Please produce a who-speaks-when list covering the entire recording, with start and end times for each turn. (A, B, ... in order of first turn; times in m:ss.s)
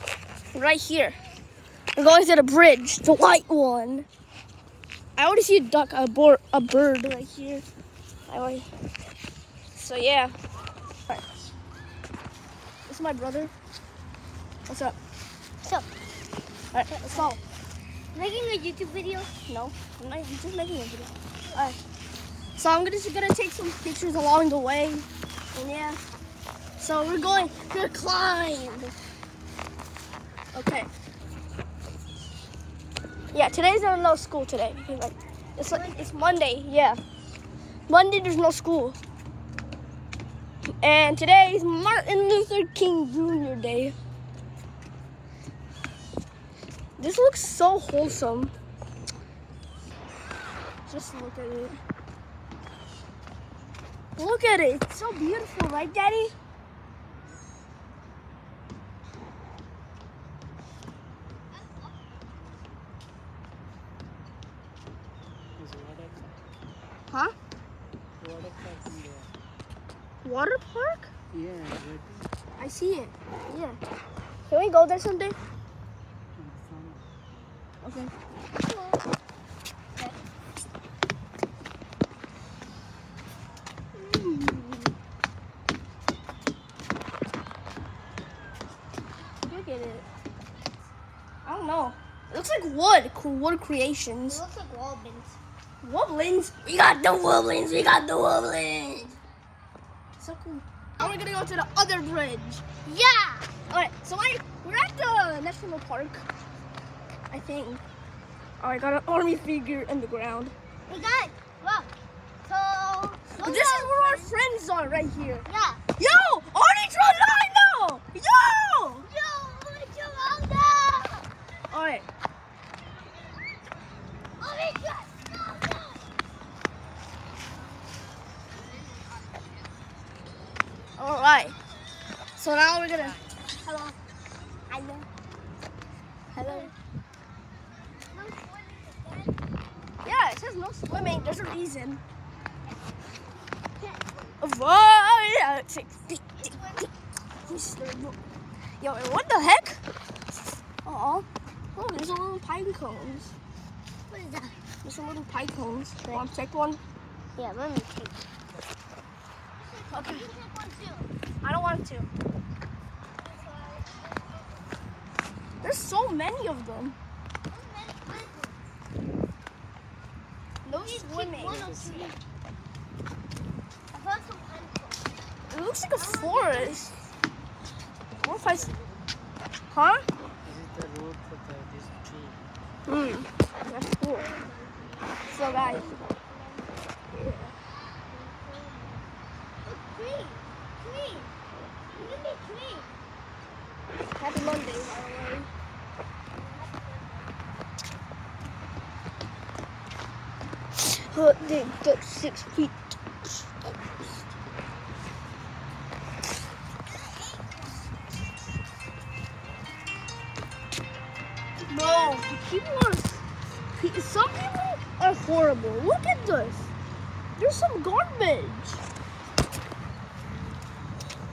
0:00.5-0:01.2 A
0:01.9-0:04.0 A
0:05.2-0:07.6 A
0:08.3-0:08.7 A
0:09.7-0:10.3 A
0:12.9-0:13.5 A
0:14.7-0:15.0 A
0:16.7-0:17.4 A
0:16.9-0:17.4 B
0:18.1-0:19.3 B
0:19.5-0:21.8 A
0:22.6-0:26.0 A
0:26.8-0:28.9 A
0:30.5-0:30.9 A
0:33.3-0:37.0 A
0:35.6-0:36.2 B
0:37.9-0:39.0 A
0:40.8-0:43.9 A
0:47.0-0:48.5 A
0:50.9-0:51.8 A
0:54.2-0:56.3 A
1:05.6-1:06.5 C
1:07.1-1:07.3 A
1:08.2-1:09.3 C
1:10.2-1:11.1 A
1:11.3-1:12.3 C
1:12.6-1:13.8 A
1:14.5-1:15.4 A
1:16.3-1:17.1 C
1:17.8-1:18.1 A
1:18.6-1:19.0 B
1:23.9-1:24.9 A
1:29.5-1:30.0 A
1:31.4-1:34.4 A
1:34.3-1:35.4 B
1:35.8-1:39.1 A
1:40.2-1:42.6 A
1:42.8-1:43.5 B
1:43.7-1:46.2 A
1:47.3-1:47.8 A
1:48.6-1:50.5 A
1:50.9-1:51.9 B
1:52.4-1:54.3 B
1:53.4-1:55.4 A
1:55.4-1:55.8 B
1:56.0-1:59.0 A
1:59.0-2:01.3 B
2:01.7-2:02.0 A
2:04.4-2:06.0 B
2:11.0-2:11.6 A
2:12.4-2:13.2 A
2:13.5-2:14.0 B
2:14.7-2:15.0 B
2:16.3-2:16.7 A
2:16.4-2:16.7 B
2:18.0-2:19.5 B
2:20.0-2:22.0 A
2:20.9-2:21.4 B
2:23.8-2:24.3 B
2:24.4-2:26.9 A
2:26.4-2:27.8 B
2:27.4-2:28.2 A
2:28.8-2:29.8 A
2:30.8-2:33.3 A
2:34.1-2:34.6 B
2:34.8-2:36.8 A
2:37.4-2:38.2 B
2:39.6-2:41.1 B
2:39.9-2:40.3 A
2:41.4-2:42.1 A
2:43.2-2:44.6 B
2:45.6-2:47.0 A
2:47.5-2:48.6 B
2:50.6-2:51.7 A
2:50.8-2:52.2 B
2:51.4-2:52.1 C
2:53.9-2:55.1 B
2:55.5-2:56.9 A
2:55.9-2:56.9 B
2:58.2-2:58.7 A
2:59.7-3:00.0 A
3:00.4-3:02.5 C
3:02.9-3:04.3 A
3:04.1-3:06.8 B
3:05.3-3:05.9 A
3:07.1-3:07.5 A
3:08.0-3:09.1 B
3:09.6-3:11.3 B
3:11.9-3:12.9 B
3:14.2-3:15.5 A
3:16.3-3:17.4 B
3:20.8-3:23.5 A
3:31.7-3:33.2 A
3:33.7-3:36.7 A
3:37.4-3:38.8 A